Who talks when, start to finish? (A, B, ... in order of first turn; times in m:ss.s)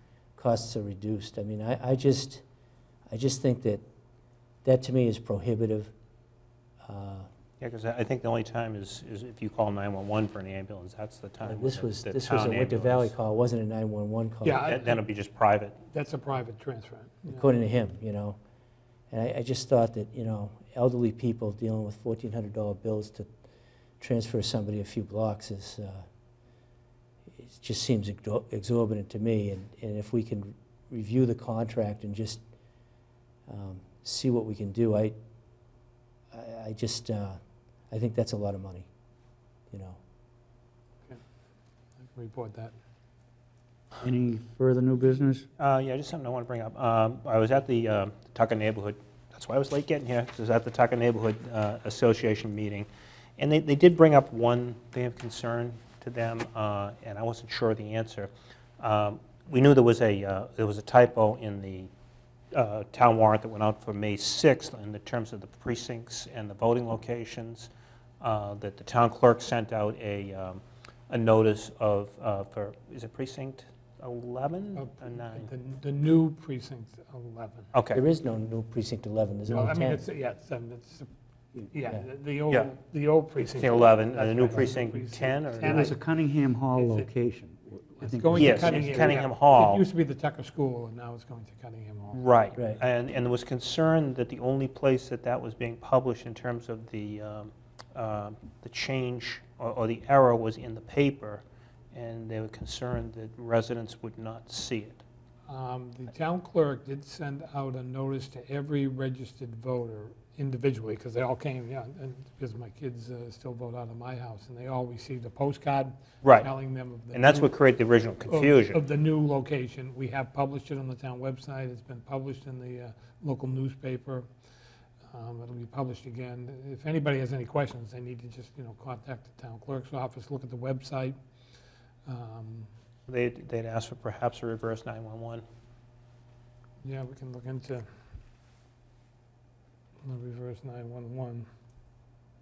0:00.4-0:02.4 A
0:03.1-0:03.8 A
0:04.6-0:05.9 A
0:06.8-0:07.3 A
0:07.6-0:13.1 B
0:11.4-0:14.7 A
0:14.4-0:15.0 C
0:14.6-0:15.8 B
0:15.9-0:17.4 C
0:17.2-0:18.4 A
0:19.1-0:23.3 A
0:24.0-0:26.0 A
0:27.4-0:32.4 A
0:33.5-0:35.2 A
0:36.3-0:37.4 A
0:37.9-0:38.9 A
0:39.7-0:40.0 A
0:42.0-0:42.7 C
0:44.0-0:45.4 D
0:45.6-0:52.9 B
0:53.4-1:01.9 B
1:02.5-1:07.7 B
1:08.2-1:15.5 B
1:14.8-1:17.7 C
1:17.7-1:18.0 B
1:17.9-1:20.0 A
1:19.5-1:21.1 C
1:21.7-1:26.0 C
1:23.6-1:25.9 B
1:25.6-1:29.1 D
1:26.7-1:27.1 C
1:28.0-1:32.2 C
1:28.4-1:29.8 B
1:32.1-1:45.0 B
1:45.5-1:57.5 C
1:56.2-1:56.5 B
1:57.1-1:58.8 B
1:58.3-2:04.3 C
2:05.1-2:11.2 C
2:12.0-2:12.7 C
2:13.1-2:15.4 B
2:16.8-2:17.8 C
2:20.0-2:21.5 C